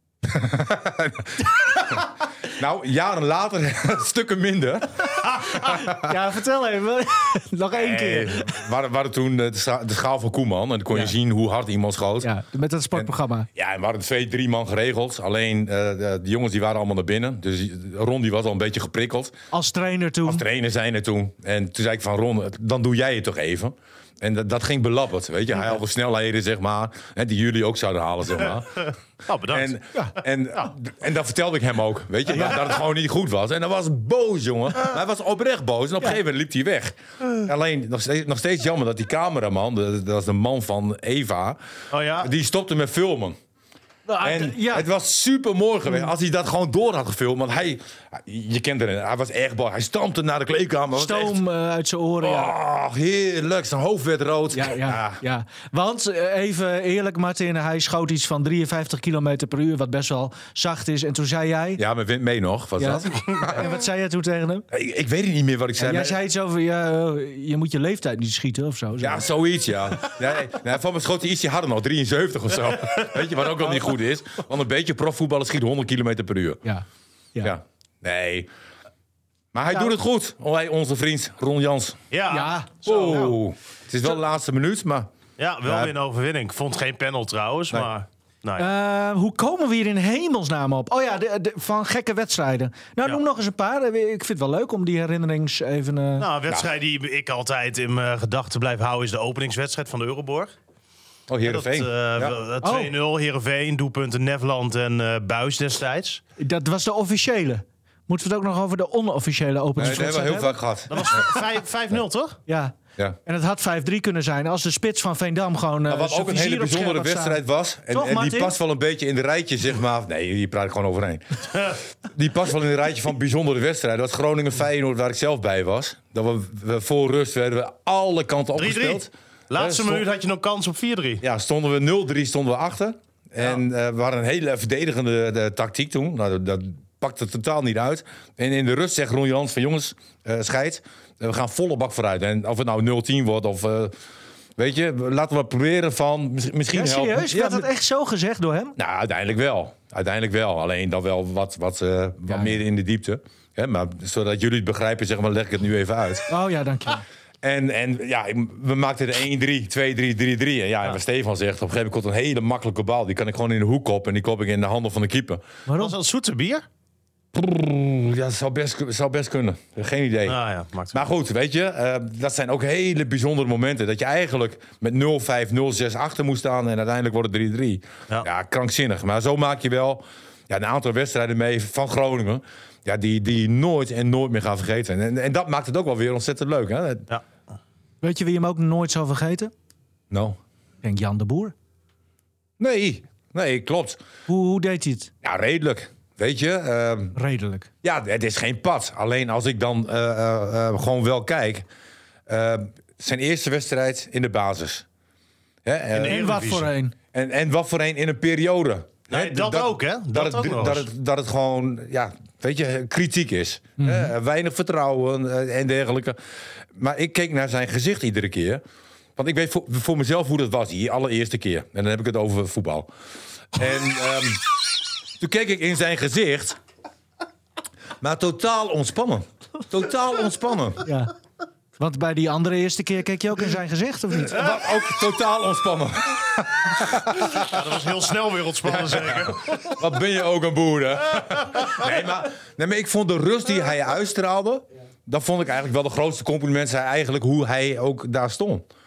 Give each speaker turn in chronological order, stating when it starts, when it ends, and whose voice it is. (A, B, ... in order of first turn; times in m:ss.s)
0:00.2-0:06.1 A
0:05.4-0:08.6 B
0:07.7-0:12.3 A
0:12.2-0:13.5 B
0:12.9-0:19.3 A
0:19.5-0:20.4 B
0:20.2-0:28.8 A
0:29.2-0:29.8 C
0:29.5-0:41.6 A
0:41.9-0:42.3 C
0:42.2-0:43.4 A
0:44.1-0:44.9 B
0:44.2-0:51.4 A
0:50.9-0:52.5 B
0:52.2-0:55.2 A
0:54.5-1:01.8 B
1:01.8-1:03.7 A
1:02.8-1:04.6 B
1:04.7-1:06.2 A
1:05.8-1:09.3 B
1:09.0-1:16.6 A
1:16.6-1:17.5 B
1:17.4-1:18.5 A
1:19.5-1:22.0 A
1:22.1-1:23.3 C
1:22.3-1:23.4 B
1:22.8-1:25.1 A
1:25.4-1:28.7 C
1:25.6-1:25.9 A
1:28.6-1:36.3 B
1:36.2-1:40.5 C
1:41.3-1:42.4 A
1:41.4-1:46.2 C
1:42.6-1:42.9 B
1:46.4-1:51.3 B
1:49.8-1:51.2 A
1:50.9-1:52.4 C
1:52.5-1:52.7 B
1:53.2-1:58.6 B
1:55.9-2:10.0 A
2:08.6-2:11.2 C
2:11.2-2:23.9 A
2:24.6-2:27.7 A
2:26.7-2:28.7 B
2:28.8-2:36.3 A
2:32.3-2:32.6 B
2:36.3-2:37.0 B
2:37.4-2:45.4 A
2:45.7-2:45.9 B
2:45.8-2:46.6 C
2:47.3-2:50.4 A
2:50.2-2:51.0 C
2:50.9-3:07.1 A
3:08.0-3:09.5 B
3:10.1-3:10.4 A
3:10.8-3:11.5 B
3:12.6-3:14.0 A
3:14.3-3:15.1 B
3:15.2-3:17.2 A
3:17.2-3:17.7 B
3:17.8-3:21.6 A
3:22.3-3:24.8 A
3:25.6-3:26.3 A
3:25.9-3:26.7 C
3:26.0-3:26.9 B
3:27.1-3:36.2 A
3:29.1-3:30.9 C
3:33.8-3:34.1 B
3:36.7-3:38.6 A
3:39.2-3:42.9 A
3:43.5-3:44.4 A
3:45.2-3:46.6 A
3:48.0-3:50.9 A
3:50.8-3:51.1 B
3:51.8-3:54.5 B
3:54.2-3:57.6 A
3:57.2-3:59.4 C
3:58.6-4:08.6 A